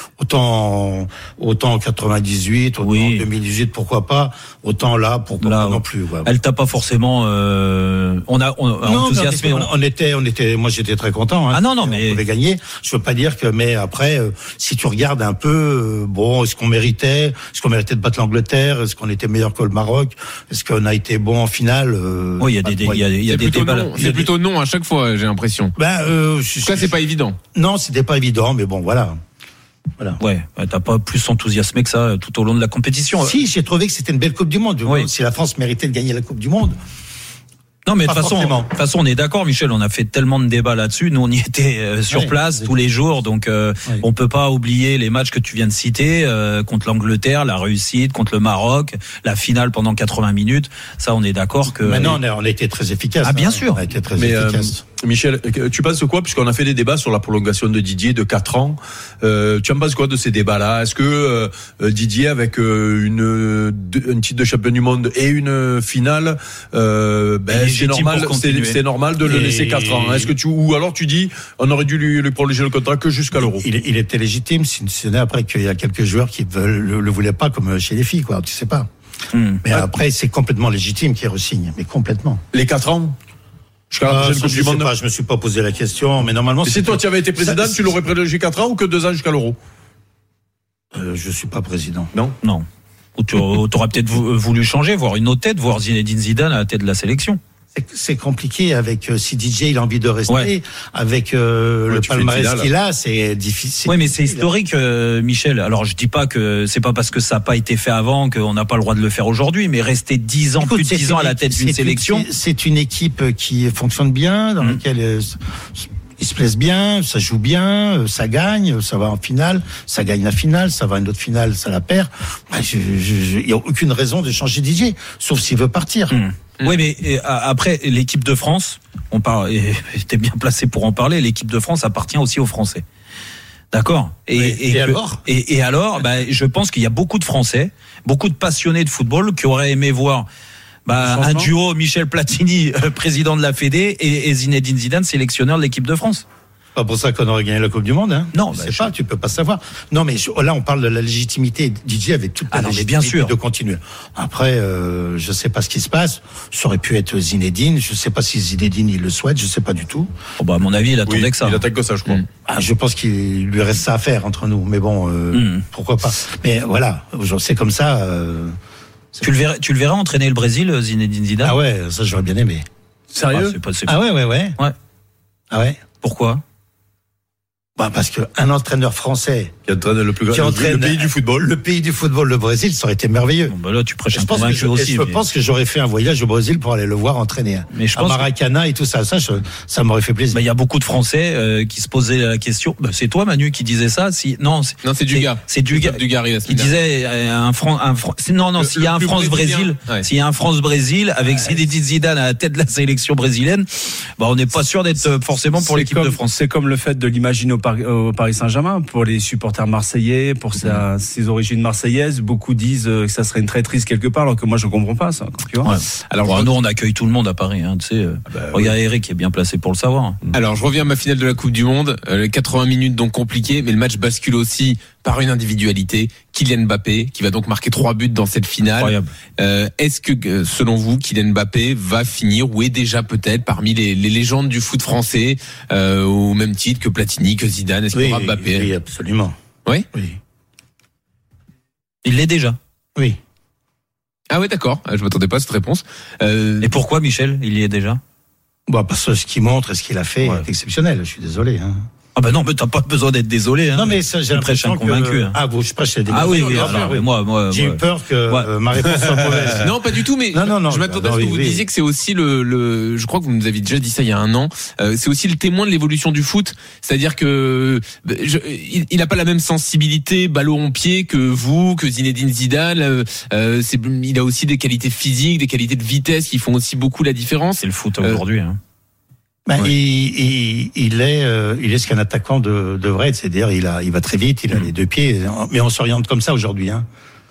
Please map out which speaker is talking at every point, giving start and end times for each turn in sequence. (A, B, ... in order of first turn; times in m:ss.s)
0:00.2-0:06.3 A
0:02.8-0:03.3 B
0:05.4-0:09.7 B
0:08.8-0:23.0 A
0:11.5-0:12.2 B
0:22.4-0:24.2 B
0:23.3-0:25.7 C
0:25.8-0:26.9 A
0:26.6-0:27.4 C
0:27.5-0:29.2 A
0:30.2-0:33.3 B
0:33.2-0:36.8 A
0:37.8-0:52.2 B
0:38.0-0:38.7 A
0:42.1-0:42.7 A
0:51.7-0:54.8 A
0:53.2-0:53.8 B
0:54.1-1:13.6 D
1:07.5-1:08.8 B
1:09.2-1:10.3 A
1:13.4-1:18.9 A
1:19.3-1:19.6 B
1:19.6-1:22.4 A
1:22.5-1:23.2 D
1:23.9-1:24.9 D
1:24.0-1:27.9 A
1:26.6-1:29.6 D
1:30.9-1:32.1 A
1:32.4-1:37.4 B
1:37.7-1:44.5 A
1:41.9-1:42.7 D
1:43.9-1:52.3 B
1:50.6-2:06.2 A
2:06.1-2:12.8 B
2:13.7-2:20.3 B
2:14.3-2:15.2 A
2:20.8-2:26.2 B
2:21.0-2:21.5 E
2:26.7-2:40.1 A
2:28.3-2:28.9 B
2:32.5-2:33.3 B
2:40.4-2:41.6 B
2:41.1-2:42.2 D
2:42.4-2:48.5 A
2:45.3-2:45.6 B
2:49.2-2:51.6 B
2:51.4-2:52.6 A
2:53.1-2:53.6 D
2:53.3-2:54.0 B
2:53.9-2:54.6 A
2:55.5-2:55.8 A
2:56.0-2:56.4 B
2:57.8-2:59.5 A
2:59.7-3:01.5 D
3:00.3-3:03.5 A
3:03.5-3:05.2 B
3:04.1-3:10.4 A
3:07.7-3:08.3 B
3:10.3-3:26.3 B
3:14.8-3:16.8 C
3:18.6-3:20.0 C
3:25.6-3:35.7 E
3:30.6-3:30.8 B
3:35.6-3:40.2 B
3:36.1-3:36.5 C
3:38.3-3:38.7 D
3:40.3-3:58.7 C
3:48.7-3:49.1 B
3:57.9-3:59.3 A
3:59.9-4:00.2 A
4:02.0-4:02.6 B
4:04.3-4:06.7 C
4:06.6-4:08.0 B
4:08.7-4:11.9 A
4:12.2-4:15.4 B
4:13.7-4:19.7 A
4:16.1-4:18.5 B
4:16.1-4:17.0 C
4:19.1-4:19.6 D
4:19.6-4:38.2 C
4:20.3-4:21.6 A
4:37.6-4:38.6 B
4:39.5-4:46.8 A